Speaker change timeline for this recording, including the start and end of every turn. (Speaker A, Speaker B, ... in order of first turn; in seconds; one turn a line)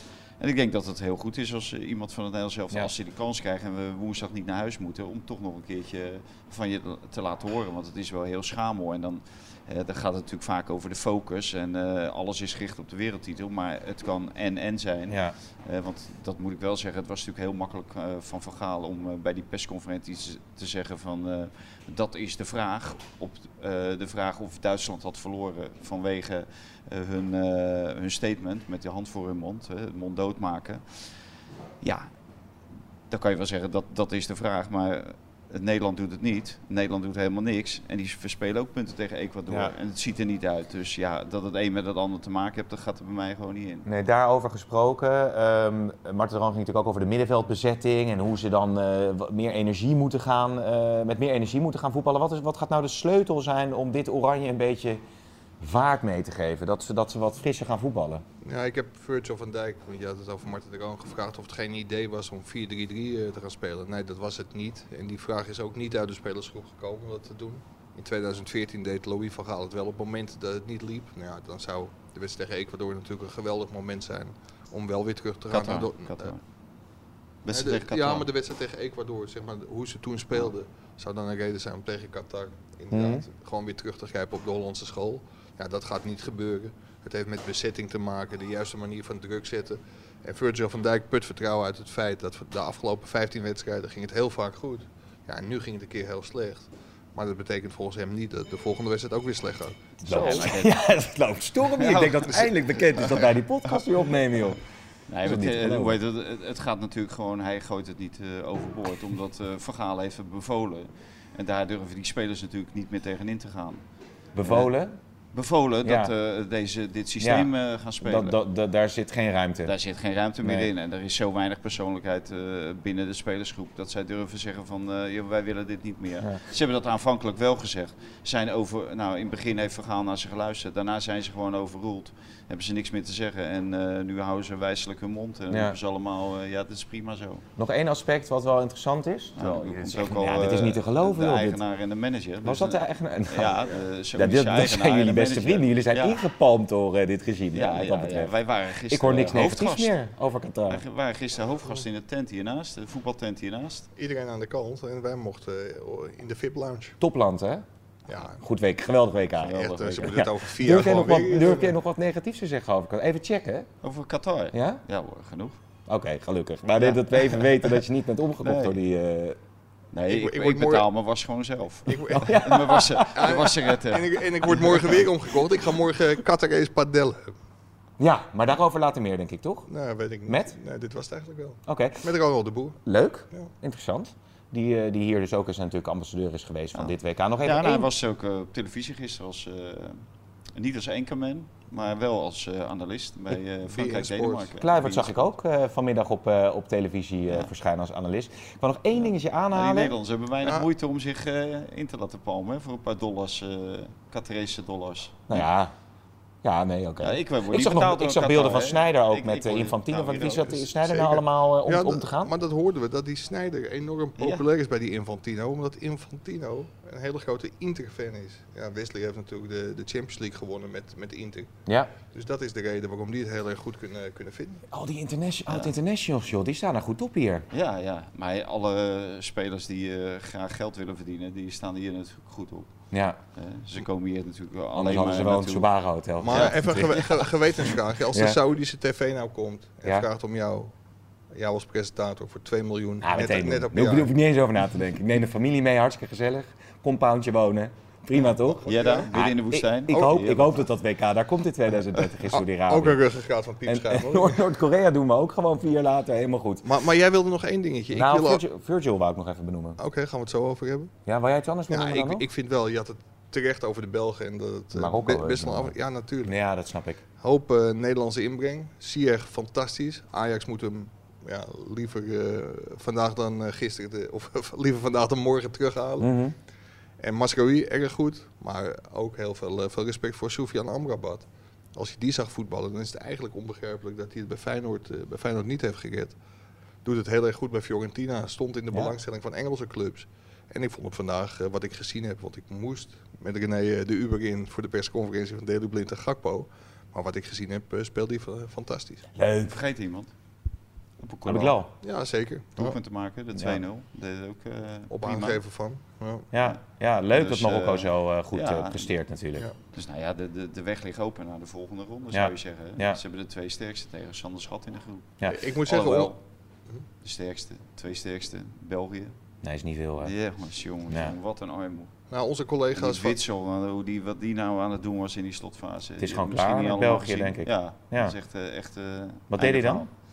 Speaker A: 0.4-31.1
Speaker B: 15.1-15.3
Speaker A: 31.8-32.1
Speaker A: 33.1-43.9
Speaker B: 39.5-39.7
Speaker B: 43.9-55.0
Speaker B: 55.6-58.2
Speaker C: 58.4-76.3
Speaker A: 75.5-76.4
Speaker A: 77.4-78.3
Speaker C: 77.5-100.5
Speaker B: 82.9-83.2
Speaker B: 100.0-104.6
Speaker A: 100.0-100.8
Speaker A: 101.8-102.4
Speaker A: 105.1-113.8
Speaker B: 105.2-106.0
Speaker B: 114.3-115.0
Speaker A: 114.4-114.7
Speaker A: 115.3-118.4
Speaker B: 115.8-116.1
Speaker B: 117.2-119.7
Speaker A: 119.6-137.4
Speaker B: 120.4-120.7
Speaker B: 135.5-135.8
Speaker B: 137.6-141.6
Speaker A: 139.3-146.2
Speaker B: 142.4-148.3
Speaker A: 147.5-149.9
Speaker B: 148.9-150.8
Speaker A: 150.7-153.9
Speaker C: 153.9-157.0
Speaker B: 157.0-157.6
Speaker C: 158.1-158.4
Speaker B: 158.3-163.7
Speaker A: 159.4-160.3
Speaker C: 159.5-161.8
Speaker A: 163.8-165.6
Speaker B: 164.5-164.8
Speaker B: 165.9-169.4
Speaker A: 166.8-167.8
Speaker A: 168.4-168.8
Speaker A: 169.9-175.1
Speaker C: 170.1-170.9
Speaker C: 171.8-177.3
Speaker B: 172.1-173.4
Speaker B: 178.0-179.7
Speaker C: 179.7-182.8
Speaker B: 180.3-180.6
Speaker B: 181.7-182.1
Speaker B: 182.8-187.9
Speaker A: 186.7-190.0
Speaker A: 190.5-195.3
Speaker C: 193.7-194.6
Speaker B: 194.6-200.0
Speaker A: 199.0-205.4
Speaker C: 200.4-200.7
Speaker B: 205.3-205.7
Speaker B: 206.4-212.3
Speaker A: 207.0-210.7
Speaker C: 210.7-221.5
Speaker A: 214.2-214.4
Speaker B: 221.7-221.9
Speaker C: 222.1-224.6
Speaker B: 224.7-227.4
Speaker A: 225.5-225.7
Speaker A: 227.5-232.7
Speaker B: 232.9-233.2
Speaker A: 233.3-235.7
Speaker B: 234.7-237.0
Speaker C: 236.2-240.7
Speaker A: 236.3-237.1
Speaker B: 238.1-238.4
Speaker C: 241.3-244.1
Speaker B: 243.0-253.0
Speaker C: 248.2-249.1
Speaker A: 248.7-250.6
Speaker C: 249.9-250.2
Speaker C: 252.3-254.4
Speaker B: 253.6-256.7
Speaker C: 256.6-258.4
Speaker B: 257.9-259.8
Speaker C: 259.8-260.9
Speaker B: 261.1-262.2
Speaker C: 261.7-266.3
Speaker B: 264.7-267.0
Speaker C: 267.2-276.1
Speaker B: 276.0-276.4
Speaker C: 277.0-286.1
Speaker C: 286.8-299.1
Speaker B: 299.1-299.5
Speaker A: 299.4-300.1
Speaker A: 301.0-301.6
Speaker B: 301.2-301.7
Speaker C: 301.8-302.8
Speaker A: 302.6-305.4
Speaker B: 303.3-303.6
Speaker C: 304.9-306.3
Speaker B: 306.3-309.5
Speaker A: 307.1-308.9
Speaker A: 309.7-316.2
Speaker B: 312.1-313.0
Speaker C: 315.2-316.1
Speaker A: 317.0-319.1
Speaker B: 319.4-320.1
Speaker A: 320.0-321.9
Speaker B: 320.9-321.1
Speaker C: 322.1-323.2
Speaker A: 322.7-329.9
Speaker B: 326.0-328.1
Speaker B: 329.3-329.9